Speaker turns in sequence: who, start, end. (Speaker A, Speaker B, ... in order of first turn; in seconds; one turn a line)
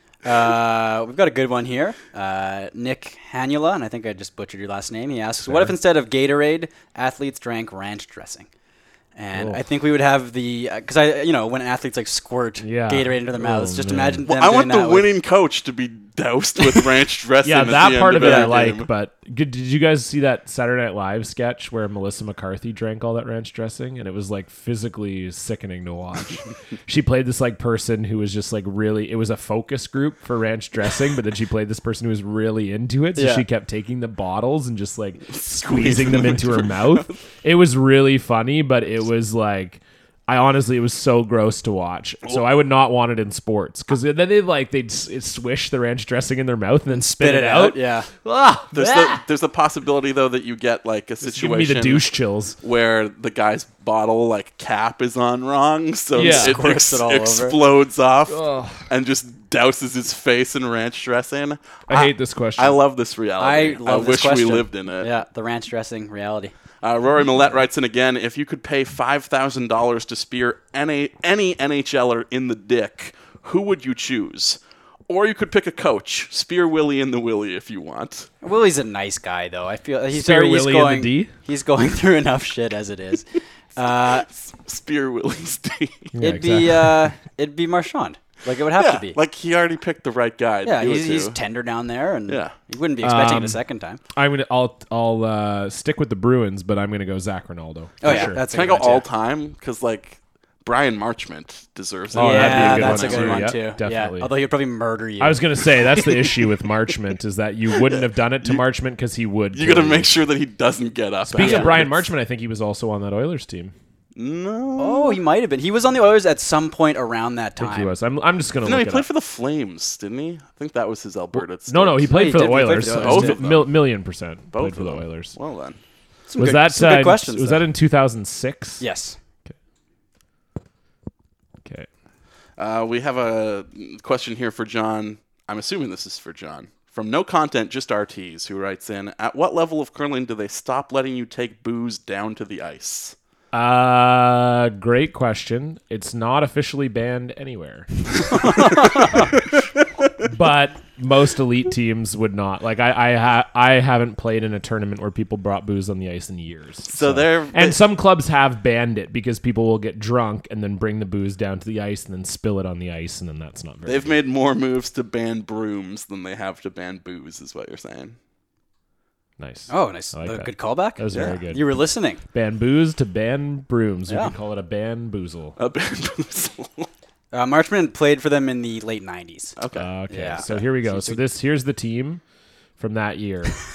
Speaker A: 0.2-8.5
Speaker B: 5.5-5.8
Speaker A: 9.2-15.1
Speaker B: 9.3-9.6
Speaker B: 12.6-14.2
Speaker C: 14.3-18.9
Speaker B: 17.4-49.2
Speaker A: 18.2-18.5
Speaker A: 33.2-33.5
Speaker C: 35.3-37.2
Speaker A: 46.9-48.1
Speaker C: 48.7-52.1
Speaker B: 51.2-52.6
Speaker C: 52.6-65.1
Speaker B: 56.1-56.6
Speaker A: 56.1-57.6
Speaker B: 58.3-58.8
Speaker B: 61.9-62.8
Speaker A: 63.4-66.5
Speaker C: 66.8-78.3
Speaker A: 78.4-84.3
Speaker B: 80.1-81.3
Speaker C: 84.3-86.1
Speaker B: 86.1-87.1
Speaker A: 86.2-89.2
Speaker C: 88.8-91.4
Speaker A: 90.7-94.0
Speaker C: 92.3-92.5
Speaker B: 93.0-93.6
Speaker B: 94.1-98.4
Speaker A: 98.0-99.1
Speaker C: 98.0-103.5
Speaker B: 102.1-104.3
Speaker A: 102.2-105.7
Speaker B: 105.2-110.1
Speaker C: 107.8-108.6
Speaker C: 109.5-112.0
Speaker B: 111.3-113.7
Speaker A: 111.4-111.8
Speaker C: 114.2-115.2
Speaker A: 114.8-117.9
Speaker B: 117.6-119.1
Speaker C: 118.6-123.8
Speaker B: 121.4-125.3
Speaker A: 122.1-123.4
Speaker C: 124.5-125.8
Speaker A: 126.3-127.6
Speaker B: 126.4-128.8
Speaker A: 128.8-129.2
Speaker C: 132.6-143.2
Speaker B: 143.5-148.7
Speaker B: 150.2-164.2
Speaker C: 156.9-157.8
Speaker C: 163.8-168.2
Speaker B: 169.4-171.8
Speaker A: 169.7-172.2
Speaker C: 171.1-171.4
Speaker B: 172.3-175.6
Speaker A: 174.1-174.3
Speaker C: 175.6-176.9
Speaker A: 177.3-179.6
Speaker C: 179.6-179.9
Speaker B: 179.8-182.2
Speaker A: 180.1-181.2
Speaker B: 182.8-183.5